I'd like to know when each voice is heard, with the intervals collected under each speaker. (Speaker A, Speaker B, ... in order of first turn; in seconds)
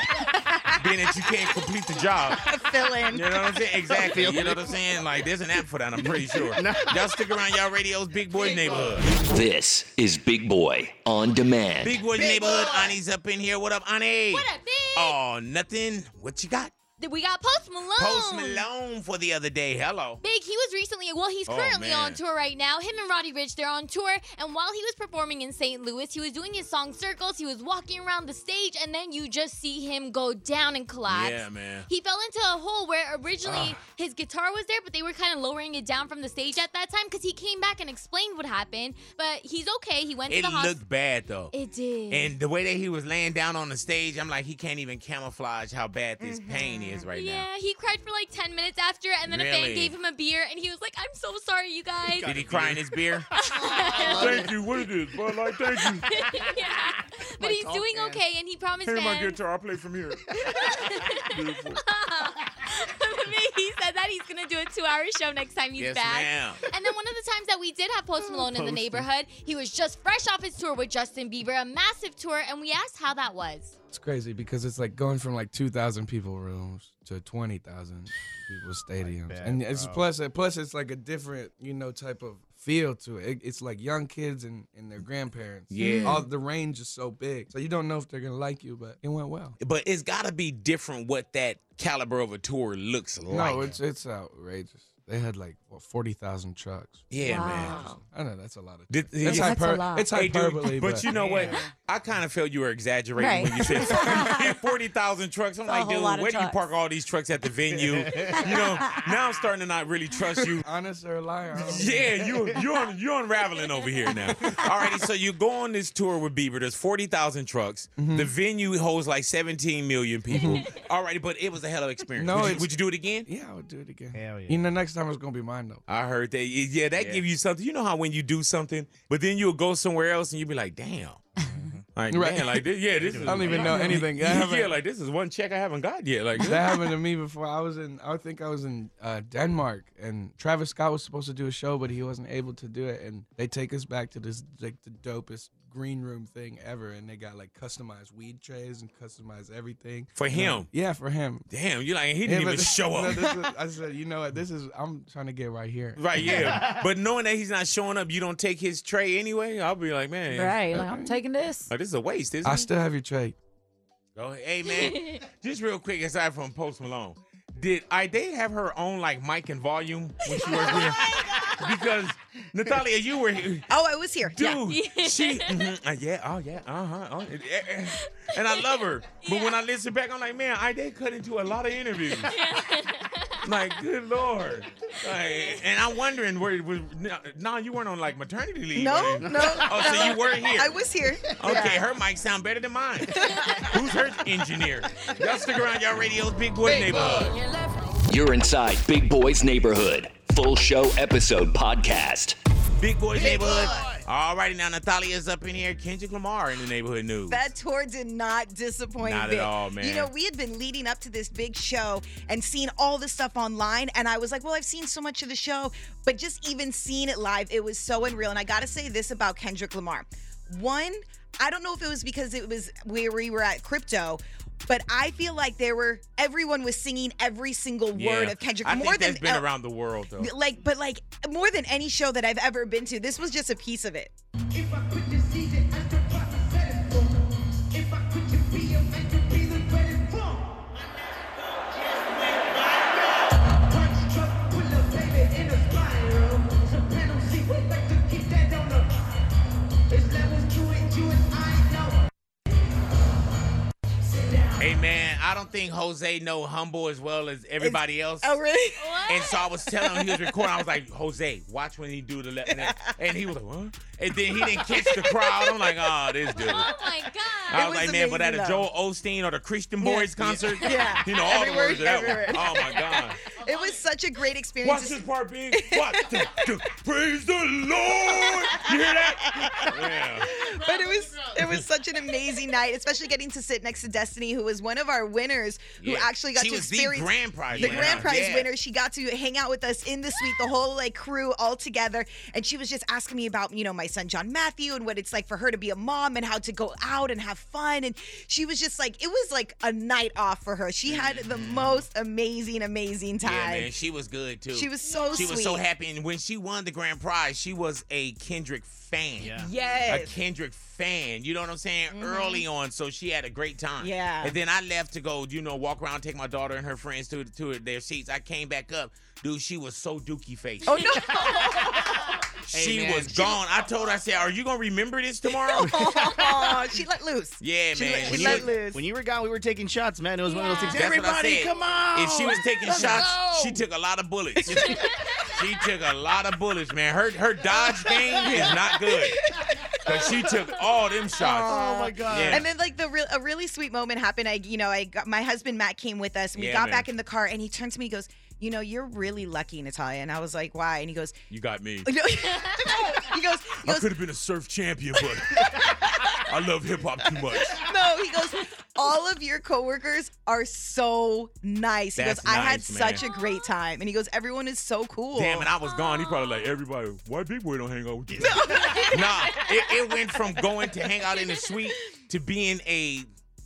Speaker A: 0.4-0.7, 2.3-3.3, 12.2-12.7, 46.2-47.0, 173.7-174.6, 188.8-191.8, 193.2-193.7, 203.2-203.9, 207.3-229.5, 230.2-234.1, 257.6-258.8, 259.8-260.4, 262.5-262.9, 264.3-265.8, 266.4-266.8, 267.5-268.7, 269.8-275.0, 275.5-276.5, 278.1-303.7, 304.5-305.6, 309.4-310.2, 311.9-312.5, 313.8-314.4, 320.7-322.2, 325.6-328.8, 332.8-333.1, 337.5-340.3, 341.2-351.1, 351.9-353.9, 355.2-356.2, 357.1-365.5, 368.2-370.0
Speaker B: 0.8-2.5, 3.1-9.1, 11.8-16.7, 18.0-20.2, 21.5-22.2, 31.1-31.9, 33.5-33.8, 40.3-41.5, 42.1-47.5, 49.3-49.9, 52.2-53.3, 54.0-56.1, 58.9-60.3, 61.2-61.8, 65.8-66.6, 85.7-86.2, 89.6-93.8, 97.1-97.8, 98.9-99.6, 100.1-110.6, 111.7-123.3, 125.9-131.2, 131.9-136.7, 150.2-150.7, 151.5-153.4, 156.0-160.6, 161.7-162.7, 164.2-173.7, 174.3-182.3, 183.4-190.8, 191.4-197.4, 202.8-207.5, 209.0-210.1, 227.9-230.3, 254.6-258.4, 259.1-266.7, 267.5-273.2, 274.6-280.4, 285.8-288.5, 300.9-301.9, 303.2-320.8, 322.5-325.7, 327.4-328.5, 330.7-339.2, 339.8-341.6, 342.1-342.4, 346.4-346.9, 351.3-351.9, 353.6-355.6, 356.2-357.6, 361.9-363.0, 365.1-373.1
Speaker C: 3.9-4.8, 6.0-7.4, 8.6-9.1, 52.1-52.8, 53.4-54.5, 57.4-58.2, 60.4-60.9, 68.5-69.0, 79.0-80.1, 101.1-101.7, 107.9-108.3, 124.1-124.7, 131.5-131.8, 133.0-134.0, 156.2-156.8, 189.2-190.0, 287.6-288.1, 309.2-309.5, 321.1-323.4, 325.6-326.6, 328.1-333.3, 334.4-334.9, 341.4-342.5, 368.1-368.8
Speaker D: 9.1-12.1, 198.1-202.4
Speaker E: 14.4-15.1, 17.0-18.7, 20.2-40.8, 41.5-42.3, 47.1-52.3, 53.4-54.4, 56.0-59.4, 60.5-73.8, 164.7-165.2, 174.7-175.6, 178.0-178.7, 179.2-179.6, 182.3-183.4, 258.8-259.4, 266.4-267.7, 270.7-270.9
Speaker F: 73.9-89.6, 93.3-101.1, 110.4-112.4, 118.0-118.3, 120.3-120.6, 122.2-125.8, 132.1-132.7, 133.2-134.8, 136.4-151.5, 152.2-156.7, 160.7-161.2, 162.4-163.4
Speaker G: 97.2-98.0, 99.2-100.1, 103.2-104.6, 105.7-106.7, 108.3-109.0, 160.3-161.7